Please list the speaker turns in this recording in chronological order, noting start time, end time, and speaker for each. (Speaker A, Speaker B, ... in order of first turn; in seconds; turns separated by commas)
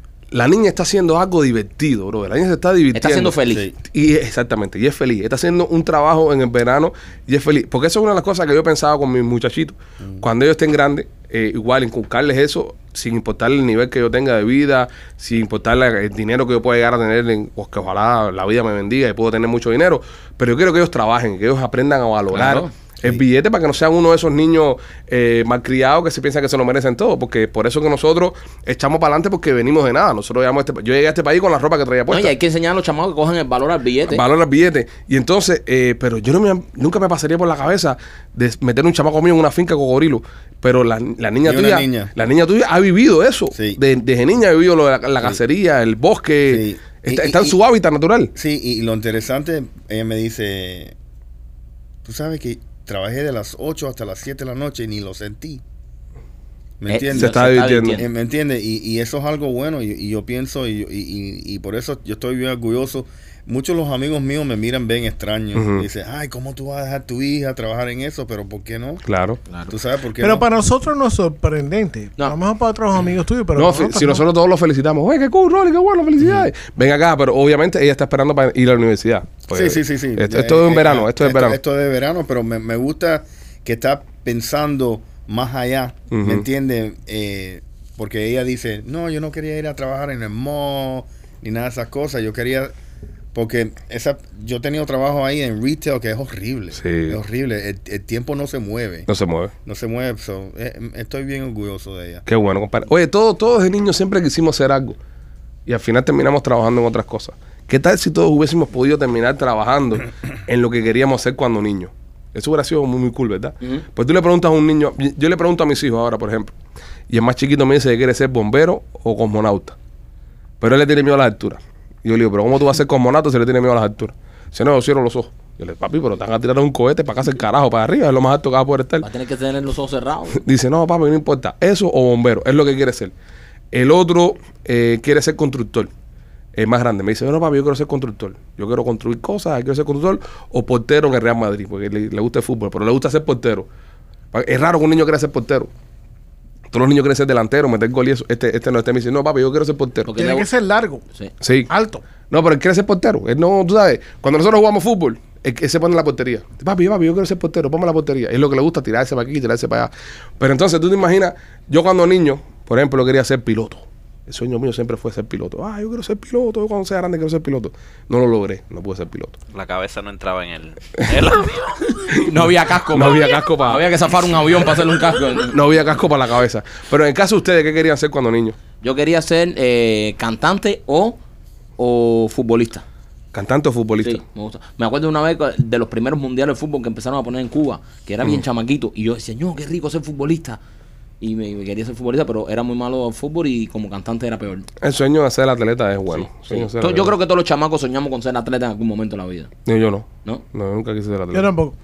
Speaker A: 0.3-32.3, Speaker B: 2.9-3.7, Speaker C: 3.5-3.7, Speaker C: 10.0-10.3, Speaker B: 22.3-22.7, Speaker B: 32.1-34.2, Speaker A: 34.1-48.3, Speaker C: 41.4-42.1, Speaker C: 43.5-43.8, Speaker C: 46.5-47.6, Speaker C: 48.4-51.0, Speaker C: 52.0-55.6, Speaker C: 56.8-69.0, Speaker B: 56.9-58.1, Speaker A: 57.1-58.0, Speaker A: 65.5-65.9, Speaker A: 69.1-69.4, Speaker C: 69.7-70.5, Speaker D: 70.2-74.2, Speaker A: 73.5-81.6, Speaker C: 76.2-76.5, Speaker C: 79.5-92.7, Speaker A: 86.1-86.5, Speaker C: 93.3-99.1, Speaker A: 96.8-97.2, Speaker A: 99.1-99.5, Speaker C: 99.7-102.2, Speaker A: 102.3-105.0, Speaker A: 105.7-116.5, Speaker A: 117.1-119.8, Speaker A: 120.6-129.1, Speaker B: 129.0-130.4, Speaker A: 130.3-133.1, Speaker A: 133.7-135.9, Speaker A: 136.6-143.7, Speaker A: 144.3-145.7, Speaker A: 146.7-150.1, Speaker B: 150.1-150.5, Speaker D: 150.1-151.0, Speaker A: 151.4-151.7, Speaker D: 151.7-152.0, Speaker A: 152.3-169.4, Speaker E: 169.5-172.0, Speaker B: 172.1-175.6, Speaker A: 172.2-173.9, Speaker A: 175.5-178.6, Speaker B: 178.8-181.2, Speaker B: 181.8-182.8, Speaker A: 183.3-184.2, Speaker B: 184.0-190.6, Speaker B: 191.2-194.7, Speaker A: 194.8-197.1, Speaker B: 196.1-199.5, Speaker A: 199.7-201.5, Speaker D: 201.3-201.8